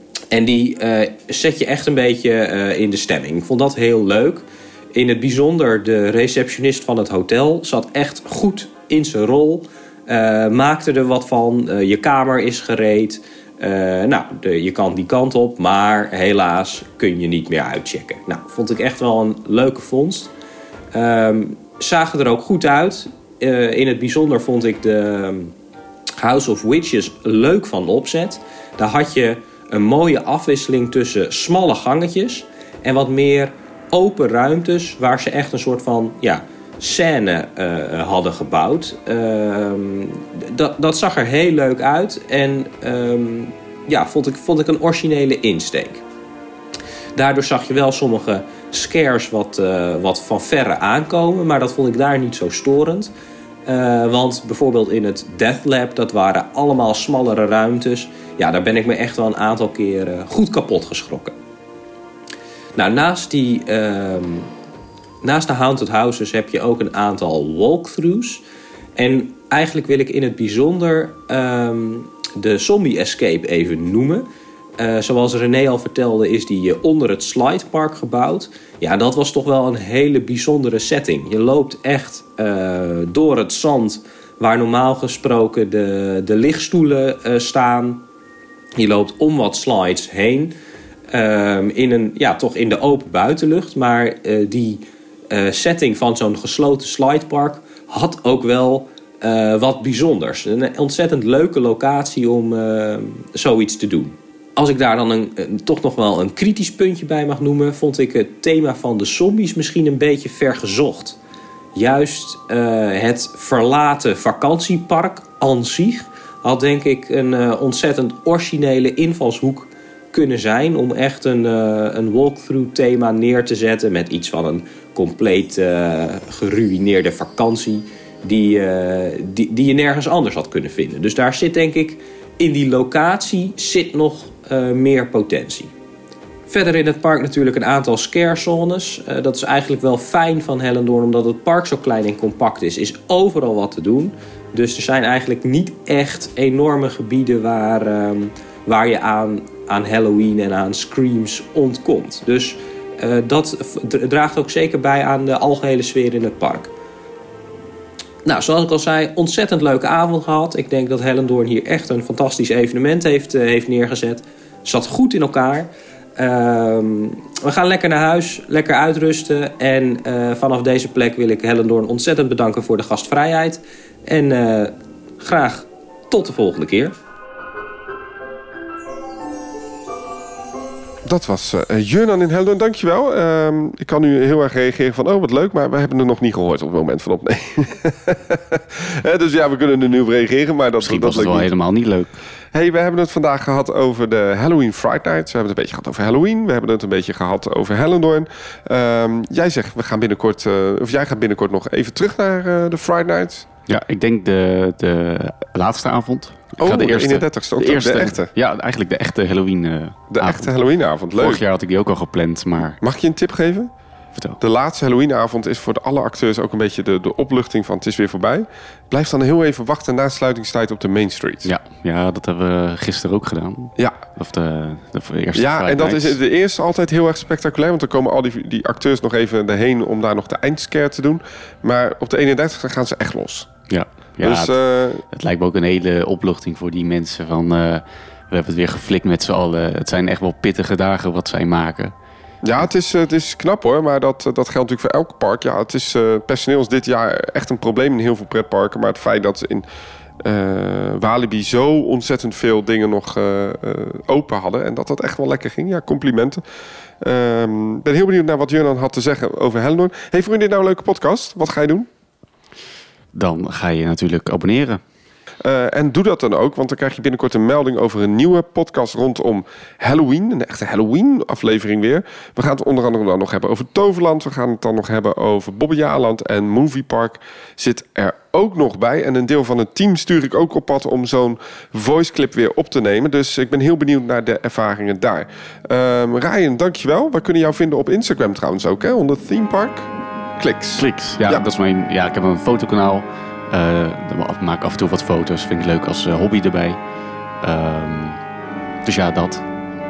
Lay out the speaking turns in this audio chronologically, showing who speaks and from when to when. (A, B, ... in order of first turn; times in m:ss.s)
0:00.3-0:20.3 A
0:20.9-0:25.5 A
0:26.2-0:46.0 A
0:47.1-0:53.1 A
0:53.6-1:01.4 A
1:02.8-1:04.5 A
1:05.2-1:08.4 A
1:09.0-1:14.3 A
1:14.8-1:28.0 A
1:28.8-1:30.5 A
1:31.1-1:51.2 A
1:51.7-2:15.7 A
2:16.5-2:36.7 A
2:38.2-2:57.0 A
3:01.0-3:11.5 B
3:10.8-3:12.1 C
3:12.5-3:23.5 B
3:23.7-3:30.5 C
3:26.6-3:28.3 B
3:30.1-3:31.4 B
3:31.1-3:32.8 C
3:32.8-3:33.7 B
3:34.4-3:41.5 B
3:41.4-3:46.2 C
3:45.3-3:53.5 B
3:53.7-3:54.6 C
3:54.2-3:55.0 B
3:55.1-4:01.9 C
4:02.4-4:09.6 B
4:10.2-4:16.4 B
4:17.0-4:21.9 B
4:23.1-4:24.8 C
4:25.4-4:51.4 B
4:50.8-4:56.8 C
4:57.4-4:58.2 C
4:58.8-4:59.4 C